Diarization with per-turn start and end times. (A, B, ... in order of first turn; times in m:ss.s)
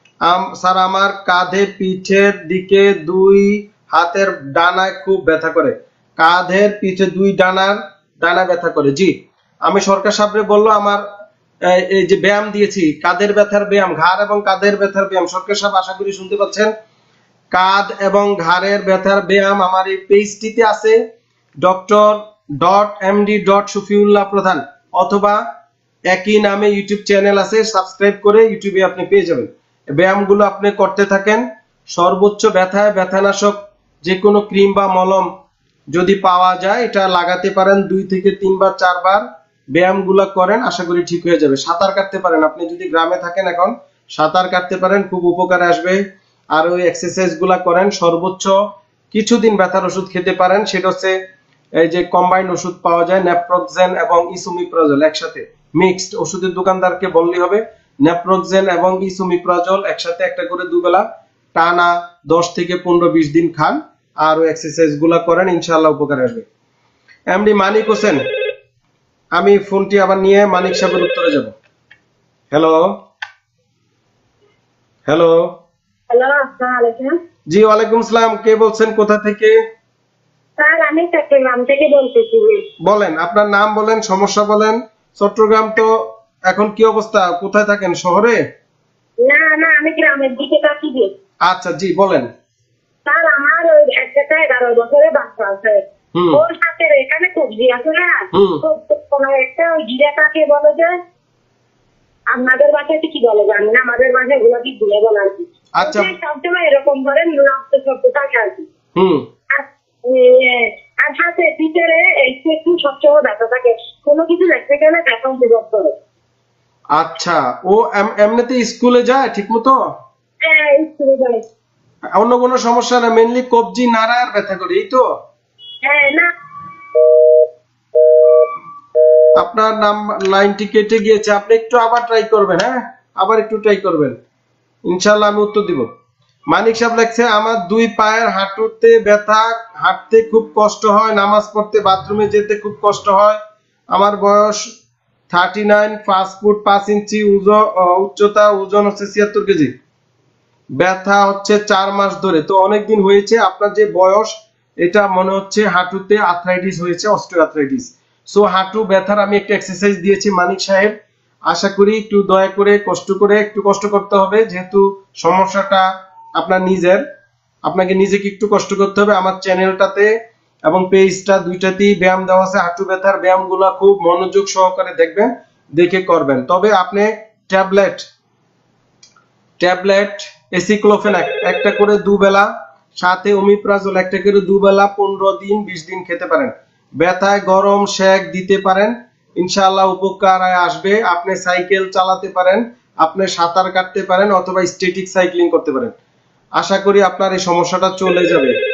0:00.2-0:09.1 A
0:09.6-0:11.0 A
0:11.7-0:16.7 A
0:17.5-0:21.0 A
0:21.6-0:25.4 A
0:26.1-0:35.3 A
0:35.9-0:46.0 A
0:46.5-0:48.6 A
0:49.1-0:51.2 A
0:51.8-1:06.5 A
1:07.3-1:08.2 A
1:09.4-1:11.5 A
1:12.5-1:13.0 A
1:15.1-1:15.6 A
1:16.1-1:17.1 B
1:17.5-1:19.6 A
1:20.6-1:22.6 B
1:22.8-1:28.4 A
1:29.2-1:31.1 B
1:31.5-1:32.3 A
1:33.1-1:35.8 B
1:36.2-1:36.4 A
1:36.3-1:40.9 B
1:38.3-1:38.6 A
1:42.3-1:48.7 B
1:45.8-1:46.1 A
1:49.0-1:49.2 A
1:49.6-1:55.9 B
1:56.9-1:59.8 A
2:00.5-2:01.4 B
2:02.2-2:05.0 A
2:05.8-2:06.3 B
2:09.4-2:14.2 A
2:14.9-2:15.9 A
2:16.5-2:23.4 A
2:23.9-2:24.7 A
2:25.3-2:29.7 A
2:30.8-2:41.0 A
2:41.5-2:47.0 A
2:47.6-2:50.1 A
2:50.7-2:58.1 A
2:59.6-3:16.0 A
3:16.6-3:18.6 A